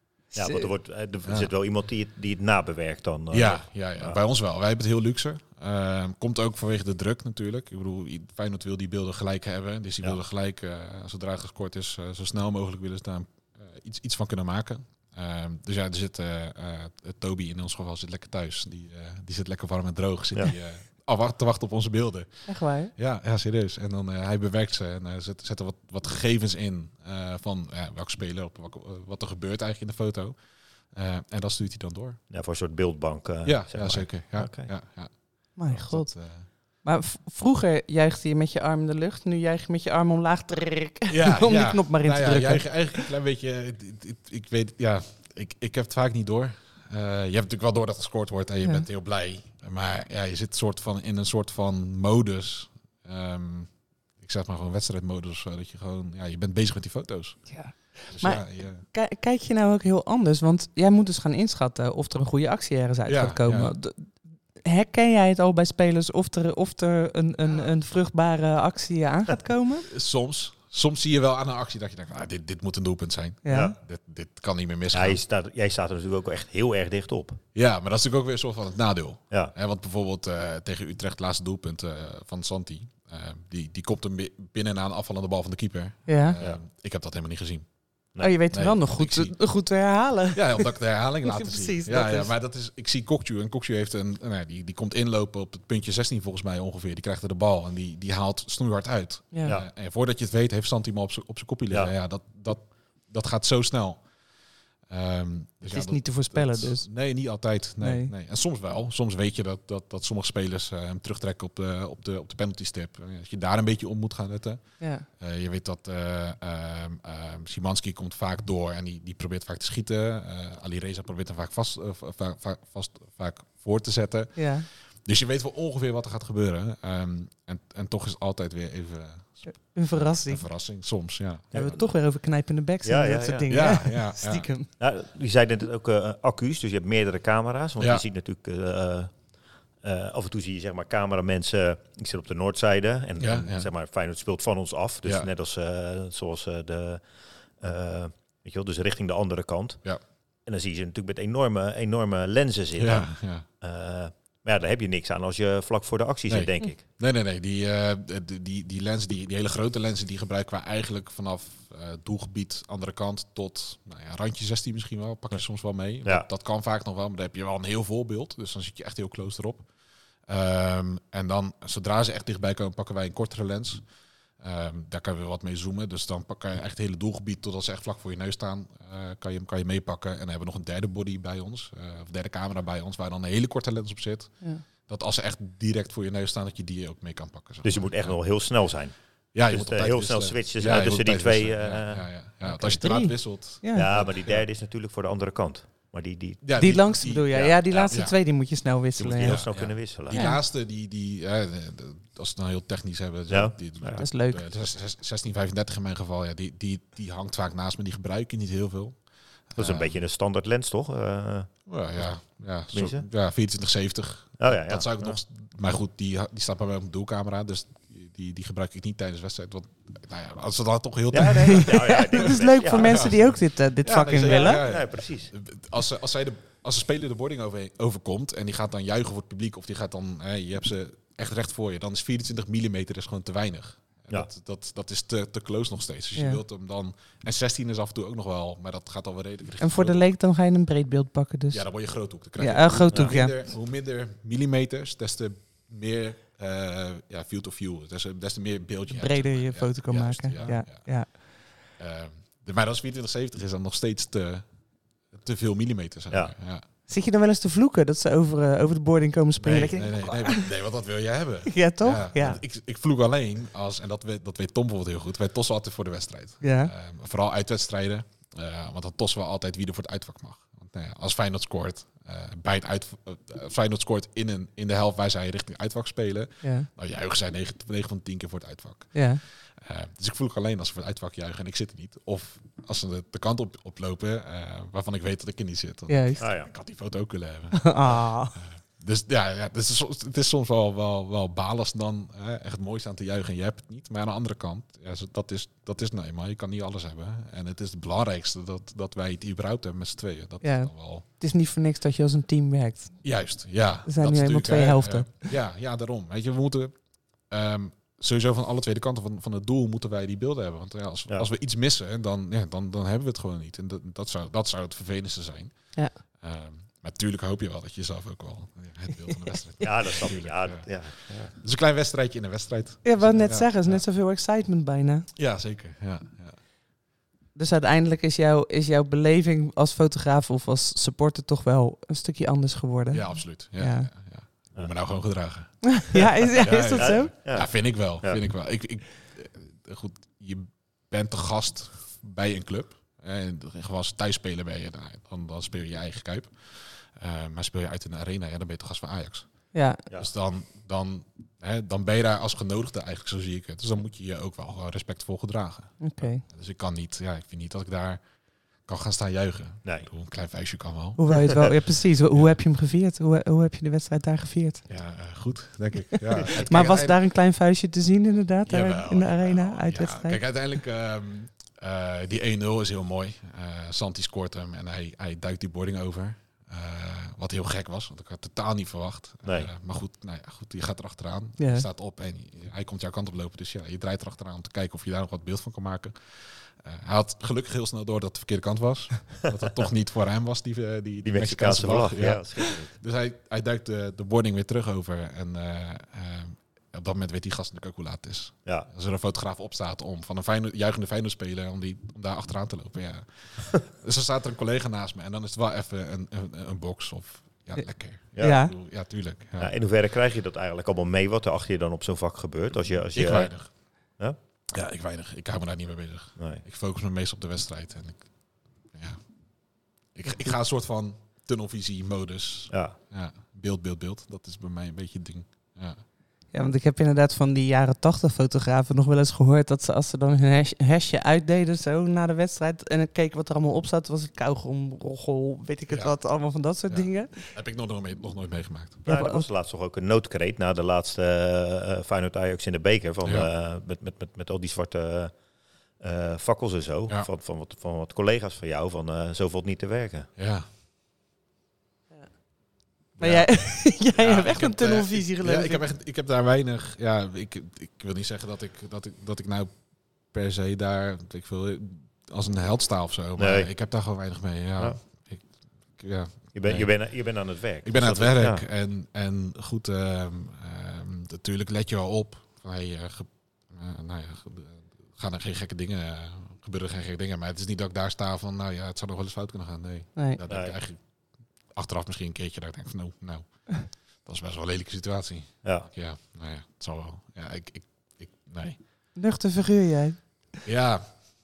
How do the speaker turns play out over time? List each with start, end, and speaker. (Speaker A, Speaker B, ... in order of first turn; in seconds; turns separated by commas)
Speaker A: 0.3-0.7, Speaker B: 0.3-4.2, Speaker C: 1.2-1.5, Speaker C: 3.3-30.4, Speaker A: 22.5-22.9, Speaker C: 30.9-32.2, Speaker B: 32.3-34.7, Speaker C: 33.4-36.5, Speaker A: 35.6-36.1, Speaker A: 36.8-43.1, Speaker C: 41.1-57.5, Speaker A: 57.5-69.9, Speaker C: 58.1-58.9, Speaker C: 63.1-63.7, Speaker C: 69.9-75.2, Speaker A: 73.5-73.8, Speaker B: 74.9-77.4, Speaker C: 77.5-87.7, Speaker A: 86.1-86.4, Speaker A: 88.2-90.7, Speaker C: 88.5-89.4, Speaker C: 90.3-104.0, Speaker A: 91.2-92.3, Speaker C: 104.9-114.6, Speaker A: 105.7-106.9, Speaker A: 107.8-108.1, Speaker A: 114.8-115.1, Speaker C: 115.1-129.6, Speaker A: 124.4-124.7, Speaker A: 129.5-130.4, Speaker C: 130.2-131.7, Speaker B: 131.5-131.9, Speaker A: 131.5-134.7, Speaker B: 132.8-133.7, Speaker C: 133.5-134.5, Speaker B: 134.8-139.2, Speaker C: 137.8-138.0, Speaker B: 139.8-147.0, Speaker C: 143.2-143.7, Speaker B: 147.6-149.8, Speaker B: 150.5-156.8, Speaker C: 152.8-153.4, Speaker C: 156.3-169.7, Speaker C: 170.3-173.8, Speaker C: 174.4-184.3, Speaker C: 184.9-188.2, Speaker B: 187.6-188.9, Speaker C: 189.3-194.4, Speaker B: 189.5-192.1, Speaker A: 192.4-193.9, Speaker B: 193.8-196.5, Speaker C: 196.4-198.2, Speaker A: 196.6-199.4, Speaker B: 197.3-197.9, Speaker B: 199.0-200.2, Speaker C: 199.2-209.0, Speaker A: 200.1-200.4, Speaker B: 203.3-204.0, Speaker A: 204.0-204.4, Speaker C: 209.5-210.0, Speaker B: 209.6-211.6, Speaker C: 211.7-240.0, Speaker B: 212.7-213.1, Speaker B: 214.4-215.2, Speaker B: 221.1-223.2, Speaker A: 221.3-224.6, Speaker B: 224.2-225.3, Speaker A: 236.2-236.4, Speaker A: 239.6-241.7, Speaker C: 241.5-251.2, Speaker A: 242.4-243.4, Speaker B: 242.9-243.2, Speaker A: 248.9-251.1, Speaker C: 251.8-254.5, Speaker C: 255.1-256.6, Speaker A: 256.9-260.5, Speaker C: 259.4-301.1, Speaker A: 261.5-262.4, Speaker A: 266.4-266.7, Speaker A: 276.4-276.7, Speaker A: 278.9-279.2, Speaker A: 285.9-286.2, Speaker B: 286.2-286.5, Speaker A: 287.6-288.3, Speaker A: 300.4-303.0, Speaker C: 303.0-306.8, Speaker A: 303.9-305.3, Speaker C: 307.3-323.8, Speaker B: 319.6-321.3, Speaker A: 322.8-325.1, Speaker C: 325.2-326.4, Speaker A: 327.4-333.9, Speaker C: 332.9-358.0, Speaker A: 335.8-337.1, Speaker B: 336.7-338.2, Speaker A: 349.5-349.8, Speaker A: 355.8-356.2, Speaker C: 358.6-361.0, Speaker A: 361.0-364.6, Speaker C: 364.7-367.0, Speaker A: 366.4-370.2, Speaker C: 368.5-409.5, Speaker B: 379.2-379.5, Speaker A: 381.4-381.7, Speaker B: 391.0-392.7, Speaker B: 408.2-408.4, Speaker A: 408.2-408.5, Speaker B: 409.4-414.2, Speaker C: 412.9-413.5, Speaker C: 414.5-418.1, Speaker B: 416.2-416.4, Speaker C: 418.7-419.1, Speaker C: 419.9-425.8, Speaker B: 422.5-422.8, Speaker A: 426.3-437.2, Speaker C: 435.7-436.0, Speaker C: 436.7-438.8, Speaker A: 438.9-439.3, Speaker B: 438.9-445.2, Speaker C: 443.0-443.3, Speaker B: 445.8-450.1, Speaker C: 450.2-450.5, Speaker A: 453.0-455.6, Speaker C: 453.0-459.6, Speaker C: 460.1-466.9, Speaker B: 463.2-463.5, Speaker B: 466.3-468.4, Speaker C: 467.6-480.8, Speaker B: 480.3-480.6, Speaker C: 481.5-488.6, Speaker B: 485.4-485.7, Speaker A: 489.0-490.0, Speaker C: 490.4-490.9